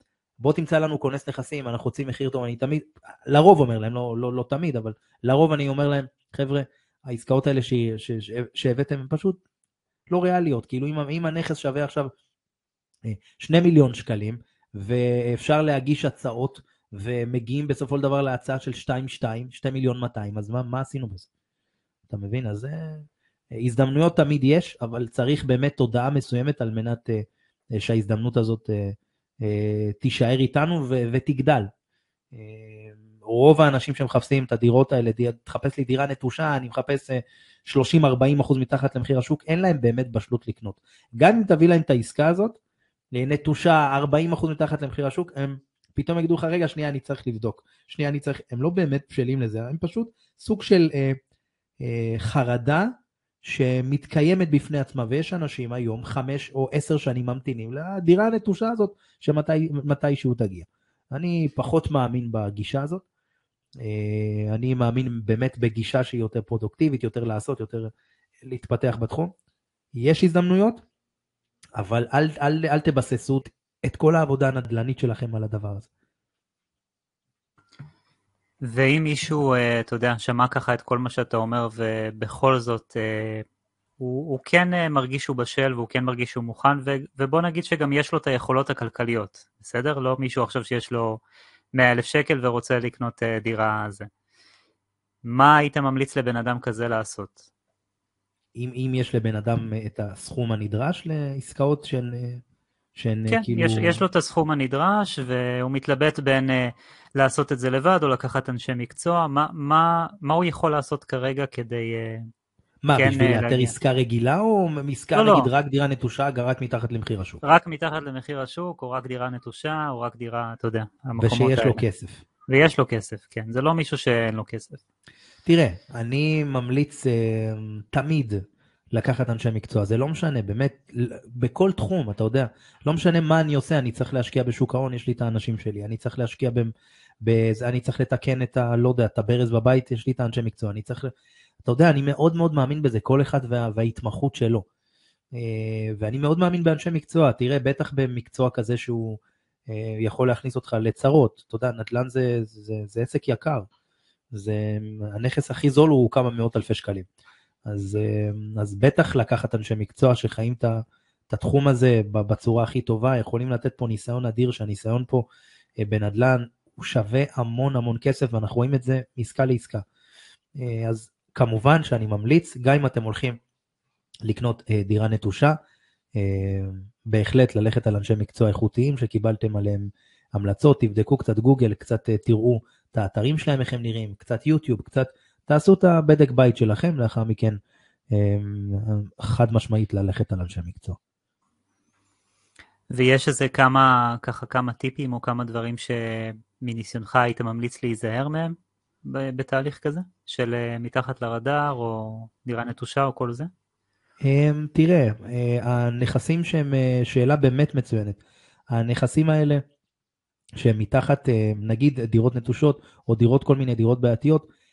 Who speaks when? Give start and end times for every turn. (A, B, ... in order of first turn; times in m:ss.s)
0:00.4-0:09.4 A
0:10.1-0:12.1 A
0:13.0-0:21.3 A
0:22.1-0:23.1 A
0:23.6-0:31.7 A
0:32.3-0:42.6 A
0:43.1-0:51.2 A
0:51.8-0:52.9 A
0:53.4-1:03.0 A
1:03.8-1:07.9 A
1:08.4-1:09.3 A
1:10.0-1:10.8 A
1:11.8-1:15.9 A
1:18.7-1:23.4 B
1:24.0-1:31.2 B
1:31.8-1:34.1 B
1:35.3-1:37.4 B
1:38.6-1:42.4 A
1:43.0-1:44.0 A
1:43.3-1:52.2 B
1:52.8-1:57.4 A
1:53.0-1:53.7 B
1:55.1-1:55.5 B
1:57.4-2:01.8 B
2:01.2-2:02.2 A
2:02.5-2:04.8 B
2:05.4-2:08.4 A
2:08.9-2:21.1 A
2:21.6-2:24.6 A
2:25.4-2:33.7 A
2:34.3-2:37.1 A
2:37.7-2:45.3 A
2:45.8-2:49.8 A
2:50.6-2:53.4 A
2:54.2-2:55.5 A
2:56.2-3:07.6 A
3:08.1-3:11.0 A
3:12.9-3:23.5 B
3:24.2-3:28.2 A
3:28.7-3:29.6 A
3:30.6-3:34.5 A